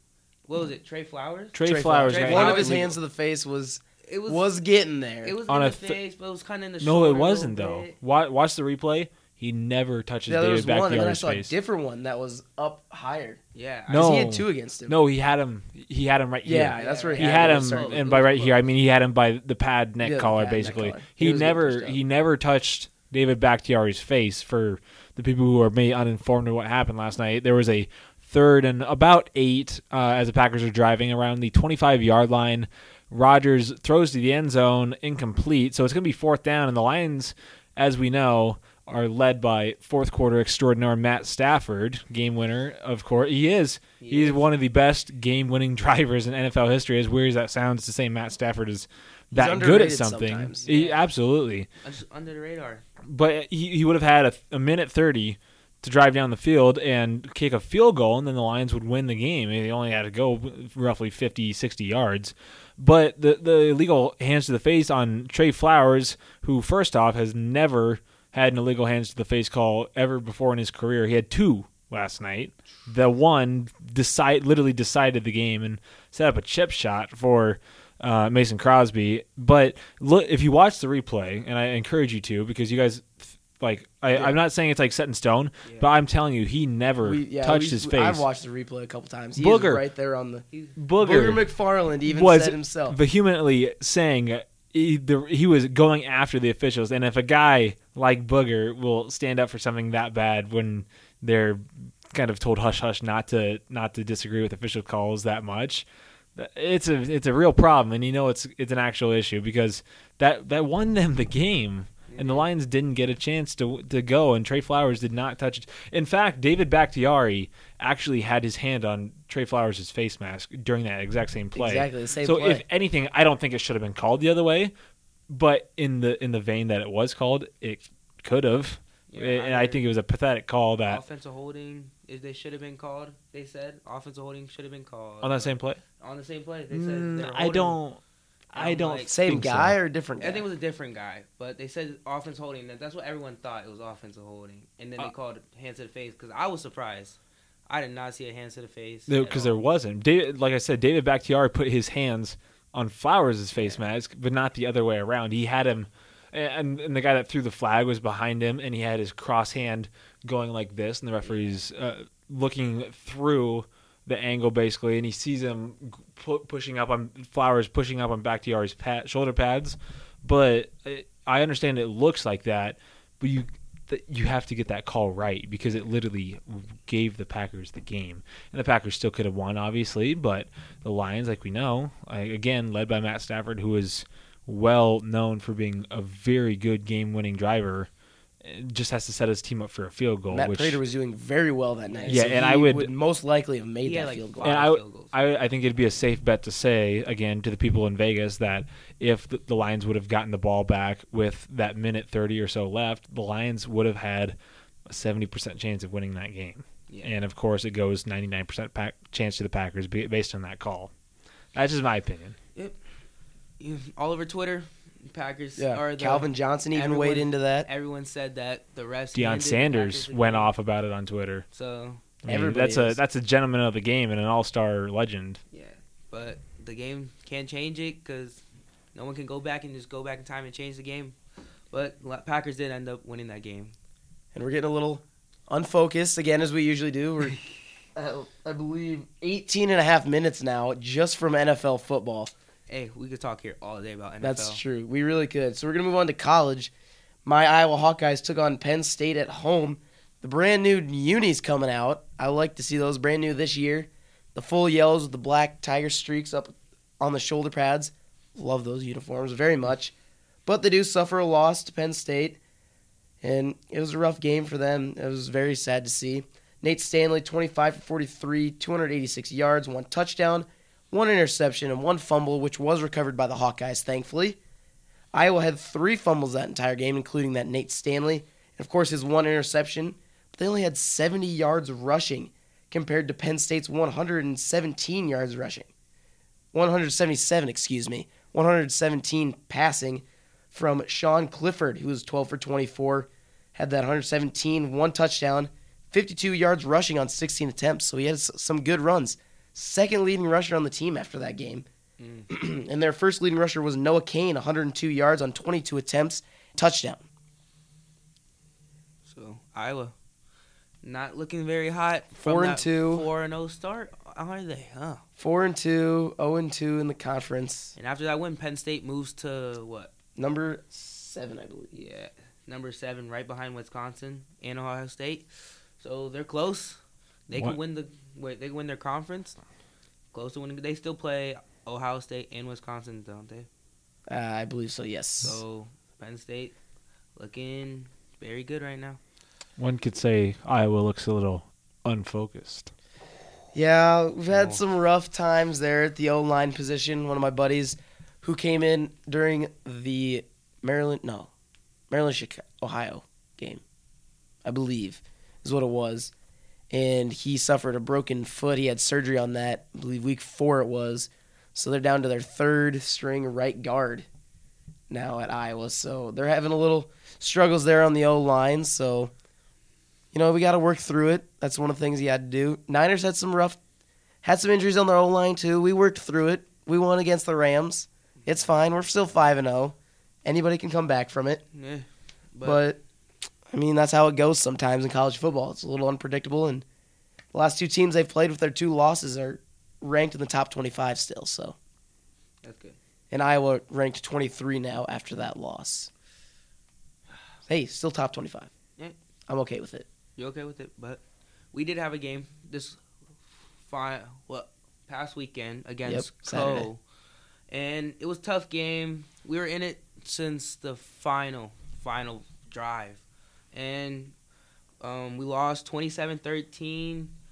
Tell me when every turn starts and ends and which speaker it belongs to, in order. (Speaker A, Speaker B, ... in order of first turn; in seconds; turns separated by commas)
Speaker A: 0.5-2.9, Speaker B: 1.5-3.0, Speaker C: 1.6-5.3, Speaker A: 4.0-4.5, Speaker A: 5.2-8.0, Speaker B: 5.5-6.0, Speaker B: 6.8-11.5, Speaker C: 10.3-14.9, Speaker A: 13.5-14.2, Speaker B: 13.9-51.7, Speaker C: 16.4-18.1, Speaker A: 16.6-18.7, Speaker C: 20.0-22.0, Speaker A: 44.0-44.5, Speaker C: 49.3-50.7, Speaker A: 50.6-51.0, Speaker A: 51.8-52.8, Speaker B: 53.0-88.3, Speaker A: 85.6-85.9, Speaker C: 87.0-90.5, Speaker B: 89.3-89.8, Speaker A: 90.5-90.8, Speaker B: 90.8-91.4, Speaker C: 91.0-93.0, Speaker B: 92.0-124.7, Speaker A: 112.1-112.5, Speaker C: 121.5-122.6, Speaker B: 125.3-131.0, Speaker A: 129.1-129.8, Speaker A: 130.8-137.8, Speaker B: 135.2-135.8, Speaker B: 136.7-138.0, Speaker B: 138.5-139.8, Speaker A: 138.5-139.1, Speaker C: 139.1-140.4, Speaker A: 140.2-149.6, Speaker B: 149.1-187.9, Speaker A: 153.6-153.8, Speaker A: 161.2-161.6, Speaker B: 188.4-190.8, Speaker C: 190.3-194.6, Speaker A: 191.8-192.4, Speaker B: 192.1-192.9, Speaker A: 193.8-195.1, Speaker B: 194.4-204.4, Speaker B: 204.9-210.9, Speaker A: 206.9-207.1, Speaker B: 211.5-212.4, Speaker A: 213.6-220.5, Speaker C: 215.6-217.7, Speaker B: 219.1-221.4, Speaker A: 221.5-222.0, Speaker B: 222.2-225.4, Speaker C: 222.3-223.0, Speaker A: 225.5-228.4, Speaker A: 228.9-231.2, Speaker A: 231.7-233.7, Speaker C: 234.3-237.4, Speaker C: 237.9-242.3, Speaker A: 242.7-244.6, Speaker C: 244.2-246.7, Speaker C: 247.2-259.9, Speaker C: 260.4-262.4, Speaker C: 263.2-274.4, Speaker C: 275.1-285.7, Speaker C: 286.5-301.6, Speaker A: 302.0-302.3, Speaker C: 302.3-307.0, Speaker A: 309.1-309.9, Speaker A: 310.8-315.0, Speaker C: 312.1-313.1, Speaker C: 315.2-317.7, Speaker A: 317.8-319.9, Speaker C: 320.1-321.7, Speaker A: 321.7-325.3, Speaker A: 325.8-329.4, Speaker B: 327.3-327.6, Speaker A: 330.1-333.5, Speaker C: 334.1-335.4, Speaker A: 335.2-336.5, Speaker A: 337.2-339.0, Speaker B: 339.6-342.7, Speaker C: 343.5-351.3, Speaker B: 344.3-344.6, Speaker C: 351.9-353.6, Speaker C: 354.4-356.1, Speaker C: 356.7-364.1, Speaker C: 364.9-369.1, Speaker C: 370.1-373.6, Speaker C: 374.2-381.4, Speaker A: 381.5-382.6, Speaker C: 382.4-382.8, Speaker C: 383.5-386.6, Speaker C: 387.3-391.6, Speaker A: 392.4-392.8, Speaker C: 393.1-395.9, Speaker C: 397.5-398.5, Speaker C: 399.3-399.9, Speaker A: 400.2-402.8, Speaker A: 403.6-406.8, Speaker C: 405.9-406.7, Speaker A: 407.5-414.1, Speaker A: 414.8-417.1